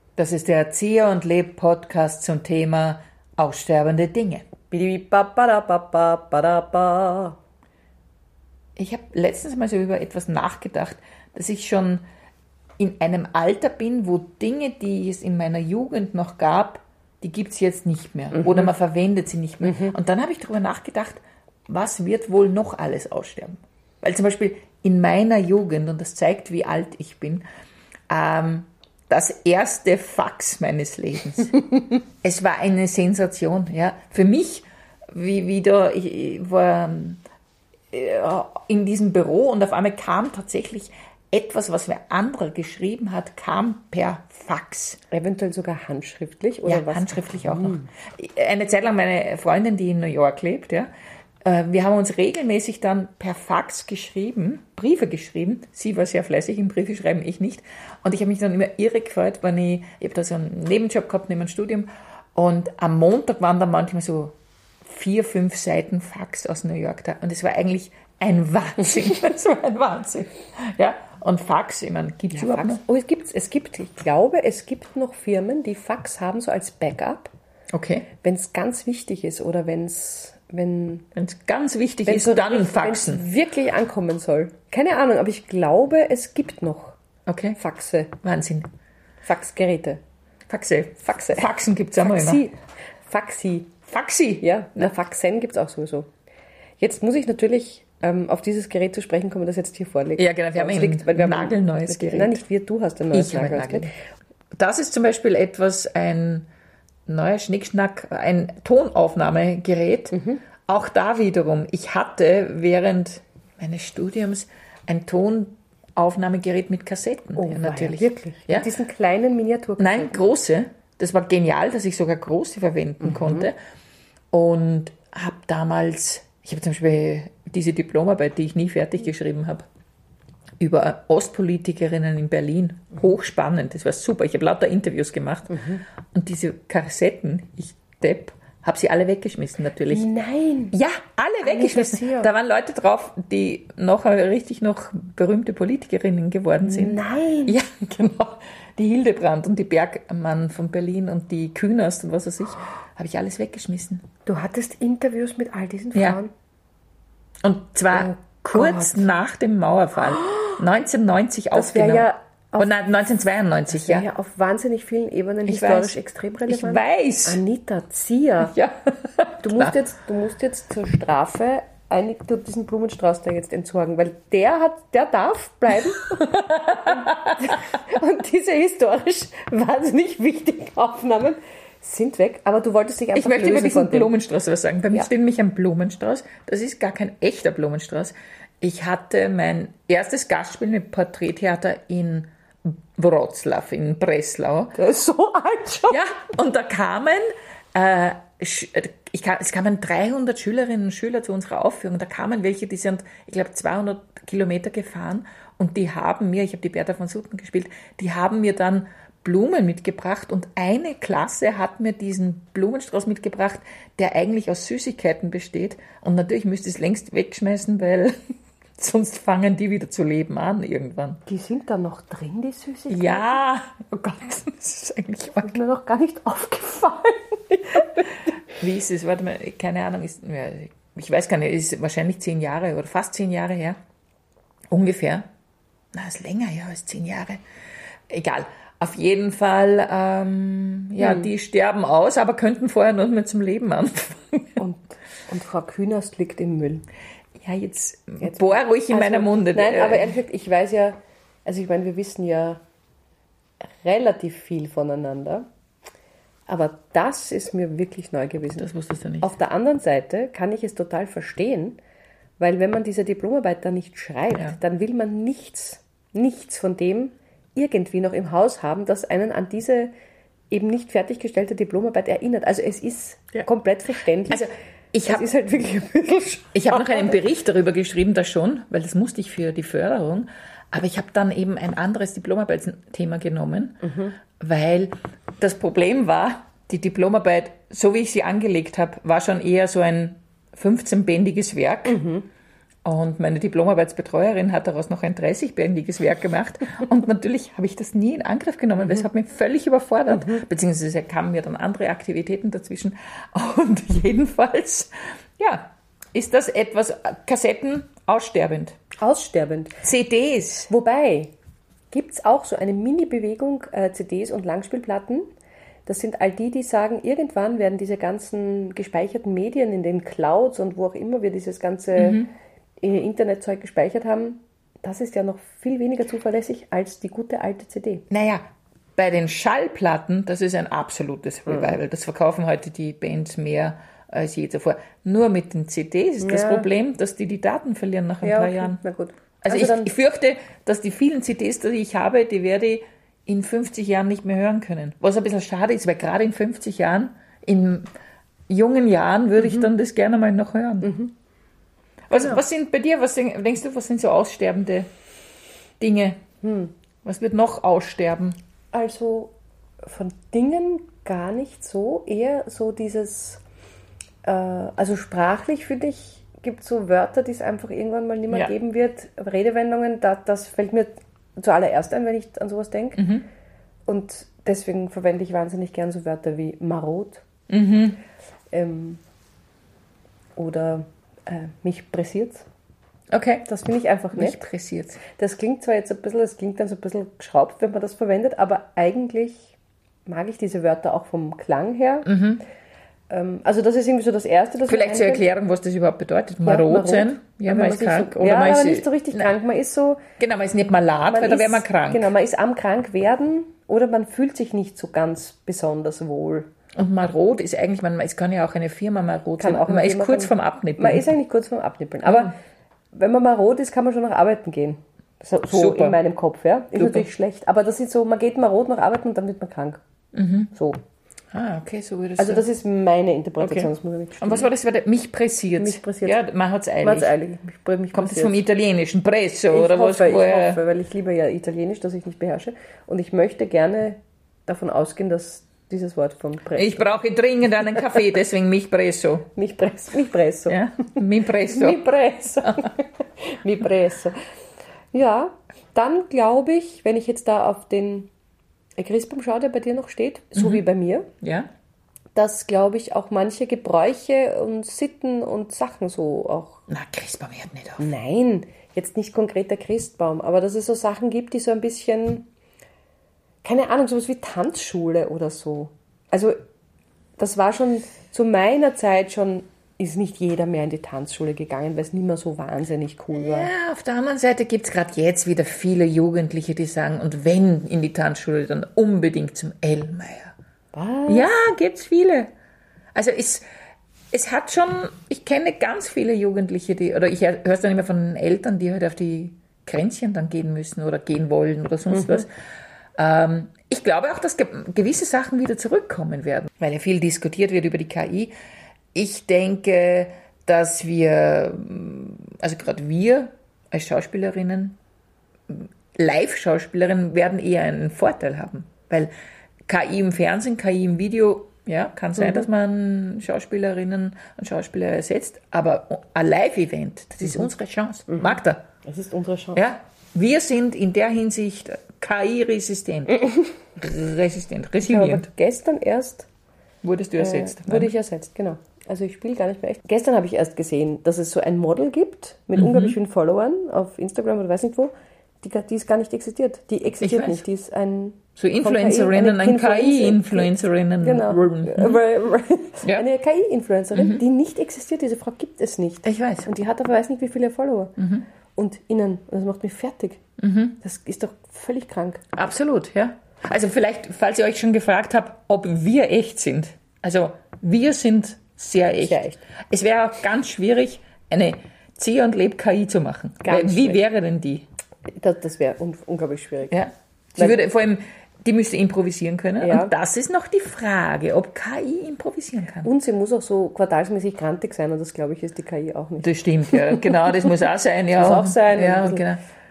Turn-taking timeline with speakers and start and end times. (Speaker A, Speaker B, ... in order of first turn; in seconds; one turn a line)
Speaker A: 0.2-4.5
Speaker B: 4.7-7.4
Speaker A: 8.8-12.0
Speaker A: 12.8-27.4
Speaker B: 18.4-18.7
Speaker B: 19.6-19.9
Speaker A: 28.1-31.7
Speaker A: 32.2-37.2
Speaker A: 37.9-45.0
Speaker B: 45.1-47.9
Speaker A: 46.6-50.9
Speaker A: 51.4-72.8
Speaker B: 72.3-77.3
Speaker A: 77.7-78.1
Speaker B: 78.2-81.1
Speaker A: 81.1-83.2
Speaker B: 82.0-87.0
Speaker A: 87.3-87.6
Speaker B: 87.6-88.1
Speaker A: 88.2-88.7
Speaker B: 89.2-90.0
Speaker A: 90.5-92.4
Speaker B: 91.0-91.5
Speaker B: 92.0-92.6
Speaker B: 93.1-93.7
Speaker A: 93.9-94.4
Speaker B: 94.4-96.1
Speaker B: 96.8-103.9
Speaker A: 100.2-102.4
Speaker A: 103.1-103.9
Speaker A: 104.5-106.5
Speaker A: 107.1-110.2
Speaker B: 110.1-110.4
Speaker A: 110.7-118.7
Speaker B: 117.4-120.2
Speaker A: 119.8-123.5
Speaker B: 123.1-123.4
Speaker A: 124.3-129.6
Speaker A: 130.6-140.1
Speaker B: 135.5-135.8
Speaker B: 139.9-140.7
Speaker A: 140.7-154.0
Speaker B: 141.4-142.3
Speaker B: 146.6-147.6
Speaker B: 154.2-156.3
Speaker A: 155.9-156.2
Speaker A: 157.4-164.1
Speaker B: 157.9-159.1
Speaker B: 160.2-160.6
Speaker B: 161.5-162.8
Speaker B: 163.7-168.5
Speaker A: 165.4-167.4
Speaker A: 168.4-169.7
Speaker B: 169.4-184.1
Speaker A: 176.1-177.5
Speaker A: 183.1-194.7
Speaker B: 194.8-196.0
Speaker A: 195.9-197.2
Speaker A: 197.7-218.1
Speaker A: 218.8-221.2
Speaker B: 221.2-223.4
Speaker A: 222.9-225.6
Speaker B: 225.4-228.1
Speaker A: 228.6-233.8
Speaker A: 234.7-235.2
Speaker A: 235.9-237.4
Speaker A: 238.1-244.6
Speaker B: 241.0-241.3
Speaker B: 244.6-246.8
Speaker A: 247.4-250.1
Speaker B: 248.2-252.6
Speaker B: 253.8-255.4
Speaker B: 256.5-258.7
Speaker A: 258.6-259.3
Speaker B: 259.2-261.8
Speaker B: 262.4-269.9
Speaker B: 270.5-274.5
Speaker A: 274.3-275.3
Speaker B: 275.1-277.1
Speaker A: 276.5-292.0
Speaker B: 283.8-284.1
Speaker B: 291.9-292.3
Speaker A: 292.8-308.8
Speaker B: 300.1-300.4
Speaker B: 309.0-309.8
Speaker A: 309.8-310.7
Speaker B: 310.7-311.3
Speaker B: 311.9-315.3
Speaker B: 315.9-322.2
Speaker A: 321.9-322.3
Speaker B: 322.8-328.0
Speaker A: 328.1-328.4
Speaker A: 328.9-338.8
Speaker B: 336.2-336.7
Speaker B: 338.2-339.9
Speaker A: 339.4-347.9
Speaker A: 348.5-350.9
Speaker B: 350.8-351.1
Speaker A: 352.1-354.9
Speaker A: 355.8-356.2
Speaker B: 356.4-356.7
Speaker A: 357.0-358.4
Speaker B: 358.7-359.3
Speaker B: 359.8-363.4
Speaker B: 364.2-373.0
Speaker A: 373.0-373.2
Speaker B: 373.9-377.2
Speaker A: 377.5-378.0
Speaker B: 378.5-379.0
Speaker B: 380.4-382.4
Speaker A: 383.1-383.4
Speaker B: 383.4-384.4
Speaker A: 384.1-385.0
Speaker B: 385.0-389.5
Speaker B: 390.1-392.1
Speaker A: 392.0-392.4
Speaker B: 393.1-395.2
Speaker A: 394.7-399.3
Speaker B: 396.4-400.0
Speaker A: 400.2-402.1
Speaker B: 401.1-406.5
Speaker A: 406.8-411.0
Speaker B: 409.4-412.3
Speaker A: 412.0-412.3
Speaker B: 412.9-419.8
Speaker A: 415.5-416.0
Speaker A: 416.8-417.1
Speaker A: 420.1-420.5
Speaker B: 420.5-420.8
Speaker A: 421.3-422.4
Speaker B: 422.2-424.5
Speaker A: 423.4-427.1
Speaker B: 425.6-426.2
Speaker B: 426.8-428.4
Speaker A: 427.9-430.6
Speaker B: 429.5-437.0
Speaker A: 436.5-439.3
Speaker B: 439.3-440.6
Speaker A: 440.5-441.8
Speaker B: 441.4-444.1
Speaker B: 444.9-448.1
Speaker B: 448.8-451.1
Speaker A: 450.4-450.6
Speaker A: 451.2-451.5
Speaker B: 452.1-456.6
Speaker A: 456.7-457.9
Speaker B: 457.8-462.2
Speaker B: 463.4-466.4
Speaker B: 467.2-473.5
Speaker A: 473.1-480.3
Speaker B: 480.7-481.3
Speaker A: 481.1-482.3
Speaker A: 482.9-483.4
Speaker A: 484.1-492.3
Speaker B: 492.0-492.2
Speaker A: 492.9-498.3
Speaker A: 498.9-504.8
Speaker A: 505.5-509.1
Speaker A: 509.7-518.6
Speaker B: 512.2-512.4
Speaker B: 518.1-519.6
Speaker A: 519.5-525.2
Speaker B: 524.8-526.3
Speaker A: 526.8-527.9
Speaker B: 527.2-547.9
Speaker A: 532.5-533.0
Speaker A: 537.0-537.4
Speaker A: 538.4-542.0
Speaker A: 543.9-544.2
Speaker A: 546.0-546.5
Speaker A: 548.0-548.2
Speaker B: 548.5-550.2
Speaker A: 550.4-550.8
Speaker B: 550.8-552.2
Speaker A: 552.3-564.6
Speaker B: 559.0-559.4
Speaker B: 563.4-564.0
Speaker B: 565.1-566.8
Speaker A: 566.7-572.9
Speaker B: 569.6-569.9
Speaker B: 572.8-577.1
Speaker A: 576.2-579.4
Speaker B: 578.1-579.2